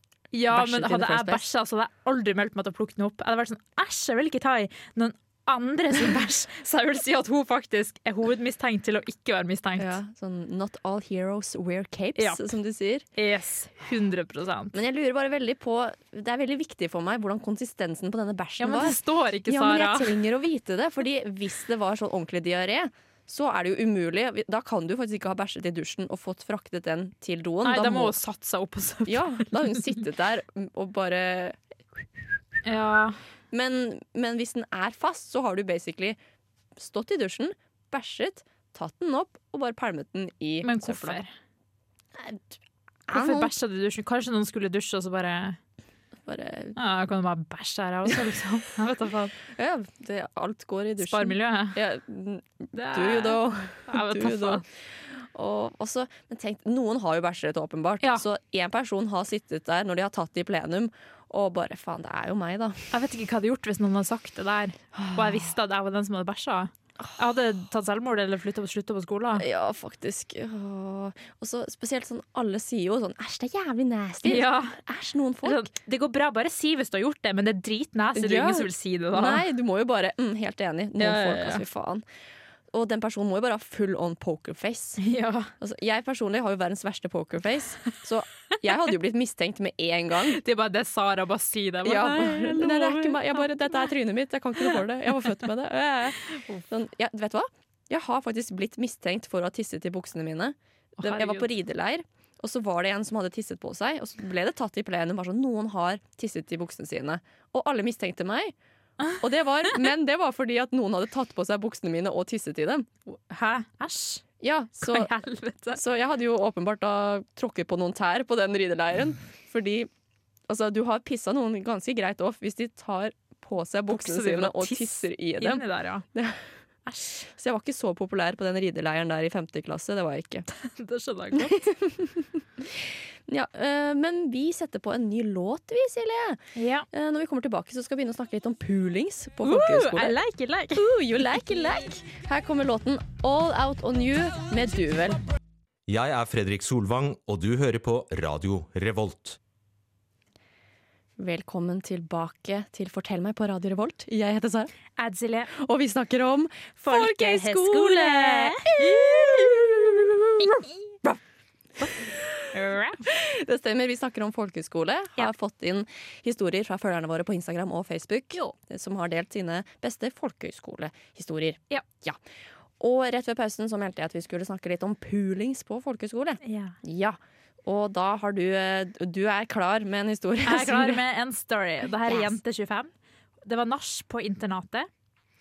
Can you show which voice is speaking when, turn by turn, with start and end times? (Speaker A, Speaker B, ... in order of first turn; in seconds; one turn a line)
Speaker A: 0.3-9.9
Speaker B: 0.5-1.4
Speaker B: 9.8-13.1
Speaker A: 12.2-12.4
Speaker A: 13.2-14.7
Speaker B: 14.7-28.2
Speaker A: 18.6-20.2
Speaker A: 27.6-30.0
Speaker B: 29.1-32.0
Speaker A: 32.6-33.2
Speaker B: 33.5-36.2
Speaker B: 36.8-41.2
Speaker A: 40.6-41.3
Speaker B: 42.1-42.5
Speaker B: 43.1-43.5
Speaker A: 43.1-45.6
Speaker B: 46.2-46.8
Speaker A: 46.8-49.3
Speaker B: 49.5-62.9
Speaker A: 51.0-51.8
Speaker A: 52.7-54.6
Speaker A: 62.9-69.4
Speaker B: 64.9-65.5
Speaker B: 69.3-75.7
Speaker A: 74.2-74.8
Speaker A: 75.4-79.4
Speaker B: 78.1-82.0
Speaker A: 81.0-81.6
Speaker B: 82.7-85.0
Speaker A: 85.0-85.5
Speaker B: 85.6-90.4
Speaker A: 90.3-93.5
Speaker B: 91.8-108.5
Speaker A: 101.0-101.5
Speaker B: 109.2-112.9
Speaker A: 113.1-114.2
Speaker B: 114.4-115.1
Speaker A: 114.8-115.8
Speaker B: 115.7-119.9
Speaker B: 120.5-126.5
Speaker A: 123.9-126.0
Speaker A: 126.8-127.2
Speaker B: 127.2-130.4
Speaker A: 130.5-131.7
Speaker B: 131.3-140.2
Speaker A: 136.5-136.9
Speaker A: 139.4-140.9
Speaker B: 140.7-145.2
Speaker C: 145.9-149.4
Speaker B: 151.2-154.7
Speaker A: 155.0-155.5
Speaker B: 155.5-161.2
Speaker A: 156.8-159.5
Speaker A: 160.4-160.7
Speaker B: 161.8-162.5
Speaker A: 162.5-163.1
Speaker B: 163.0-172.2
Speaker B: 172.8-181.0
Speaker A: 176.4-176.8
Speaker A: 180.4-182.9
Speaker B: 182.1-182.3
Speaker A: 183.4-184.9